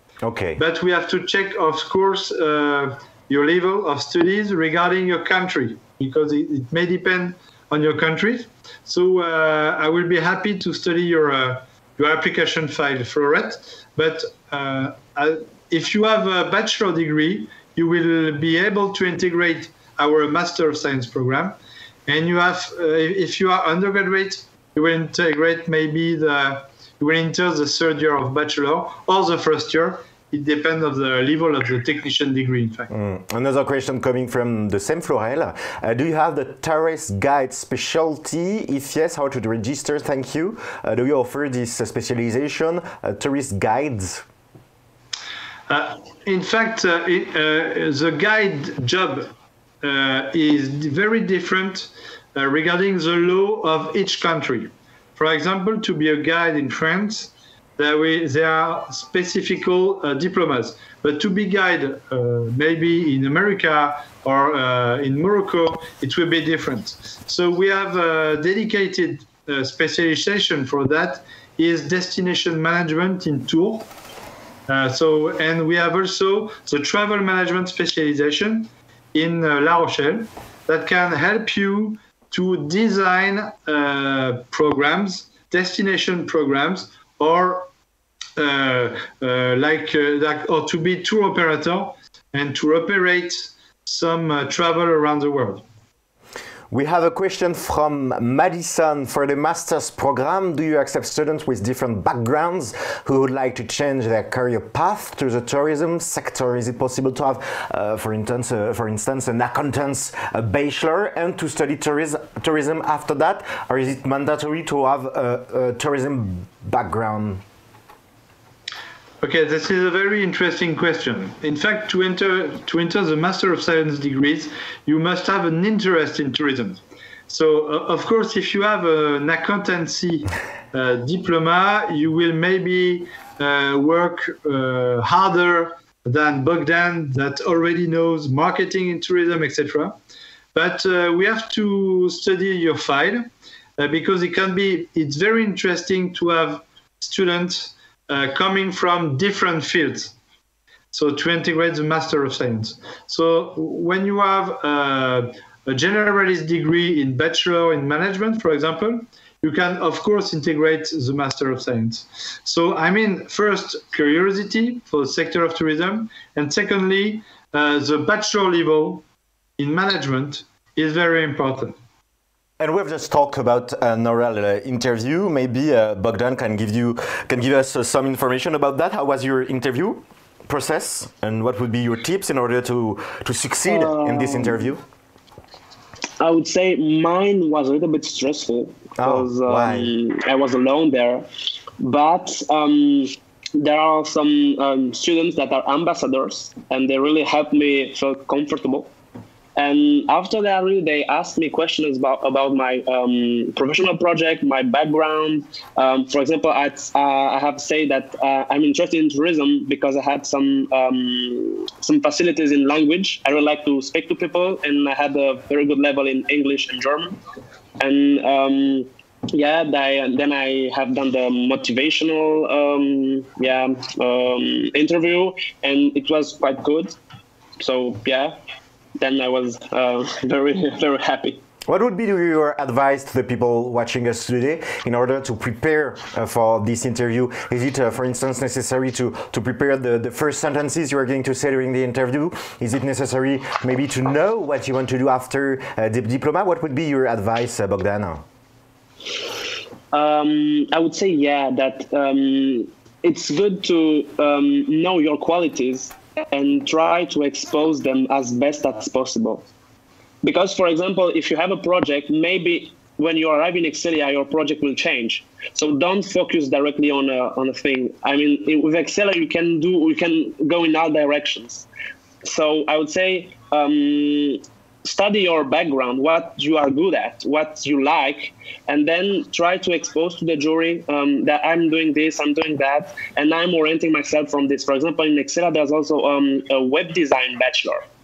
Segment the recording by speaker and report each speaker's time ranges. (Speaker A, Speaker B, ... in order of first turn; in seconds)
Speaker A: 0.2-0.6, 32.9-44.2, 96.7-117.4, 172.6-184.8, 189.0-189.9, 231.7-248.2
Speaker B: 0.6-32.9, 45.7-49.3, 49.8-73.9, 74.7-87.7, 88.4-95.6, 119.2-140.0, 140.5-150.1, 150.9-169.1, 169.6-171.8
Speaker C: 183.7-184.7, 186.2-191.2, 191.8-198.9, 199.6-217.2, 217.8-226.9, 227.6-228.3, 229.0-231.4, 249.9-259.5, 260.2-271.6, 272.2-287.9